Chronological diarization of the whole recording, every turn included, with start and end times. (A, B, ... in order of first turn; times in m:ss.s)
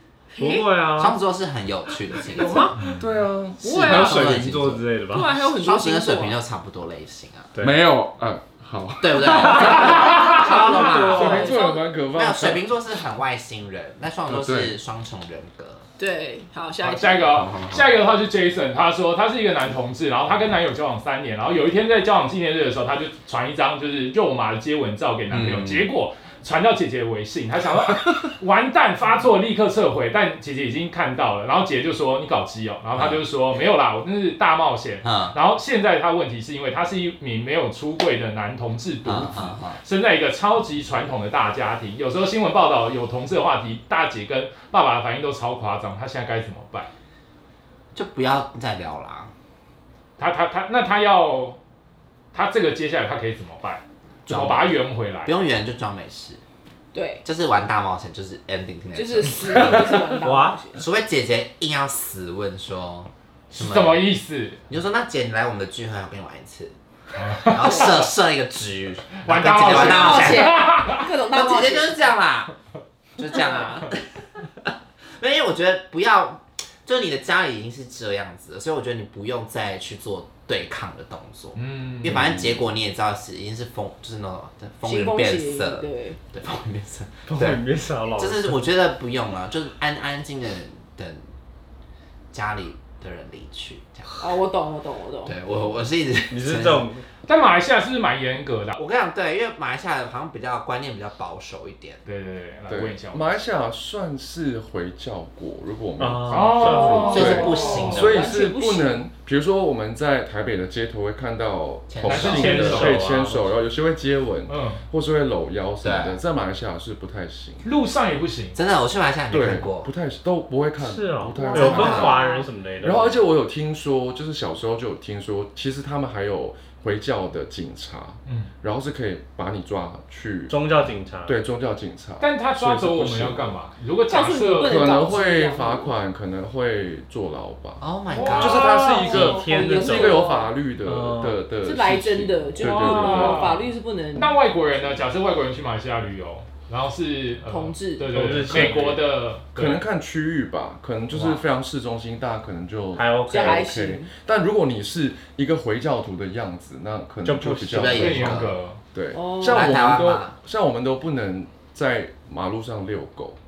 0:00.3-0:00.7 A
0:00.4-0:01.2 B
0:00.9-0:02.7 C
0:02.2-0:02.8 A
0:03.0-0:03.6 D
0:03.6-0:04.3 A
0:03.6-0:07.5 C
0:03.7-0:05.3 B
0:05.1-0:06.4 A
0:07.6-0:07.8 B
0:07.6-0:10.1 D
0:09.0-0:11.6 C
0:09.2-0:11.5 B
0:09.7-0:10.4 E
0:10.0-0:11.8 A
0:10.9-0:12.6 D
0:12.1-0:15.8 C
0:14.3-0:14.7 D
0:16.0-0:17.3 A
0:16.8-0:46.9 E
0:17.2-0:17.9 C
0:25.3-0:25.9 C
0:33.0-0:33.2 C
0:35.0-0:35.4 C
0:39.0-0:39.8 C
0:47.9-0:49.3 C
0:50.2-0:51.6 E
0:52.3-0:55.3 E
0:54.3-0:56.4 C
0:56.9-0:57.2 A
0:57.2-1:00.1 C
0:58.9-1:00.8 A
0:59.7-1:00.6 B
1:00.7-1:04.0 C
1:03.5-1:04.6 E
1:04.7-1:06.7 C
1:07.2-1:08.1 E
1:07.4-1:10.6 C
1:09.2-1:11.1 E
1:09.6-1:12.0 A
1:11.3-1:12.5 C
1:13.2-1:14.1 C
1:14.6-1:31.2 C
1:21.6-1:22.4 E
1:22.0-1:22.6 D
1:24.8-1:26.2 A
1:27.3-1:28.6 B
1:32.3-1:34.2 C
1:34.2-1:35.4 A
1:35.3-1:36.9 C
1:36.3-1:37.0 B
1:37.3-1:38.8 E
1:38.8-1:42.0 C
1:42.0-1:43.4 E
1:42.7-1:57.7 D
1:46.0-1:47.5 B
1:46.3-1:48.1 E
1:46.8-1:49.0 A
1:47.1-1:48.3 C
1:51.9-1:53.0 C
1:52.0-1:53.1 E
1:52.2-1:53.6 B
1:54.5-1:54.8 E
1:55.8-1:56.2 C
1:57.6-1:58.6 E
1:58.6-1:59.9 C
1:59.3-2:02.2 D
2:00.8-2:03.2 B
2:01.3-2:02.5 A
2:01.6-2:02.2 C
2:02.8-2:10.6 D
2:10.5-2:11.4 B
2:11.2-2:13.6 D
2:12.2-2:14.9 E
2:14.1-2:15.9 A
2:14.6-2:17.8 D
2:17.8-2:18.8 C
2:18.1-2:19.1 E
2:18.3-2:20.5 A
2:18.4-2:23.6 D
2:18.7-2:20.3 B
2:20.8-2:21.4 B
2:21.6-2:24.3 A
2:22.6-2:29.8 E
2:27.5-2:28.7 A
2:28.1-2:29.0 B
2:28.5-2:28.8 D
2:29.5-2:43.4 D
2:31.1-2:31.4 B
2:33.0-2:33.7 B
2:33.3-2:34.1 A
2:37.2-2:38.1 B
2:37.7-2:38.5 C
2:38.0-2:38.8 E
2:39.1-2:39.8 A
2:39.4-2:40.3 C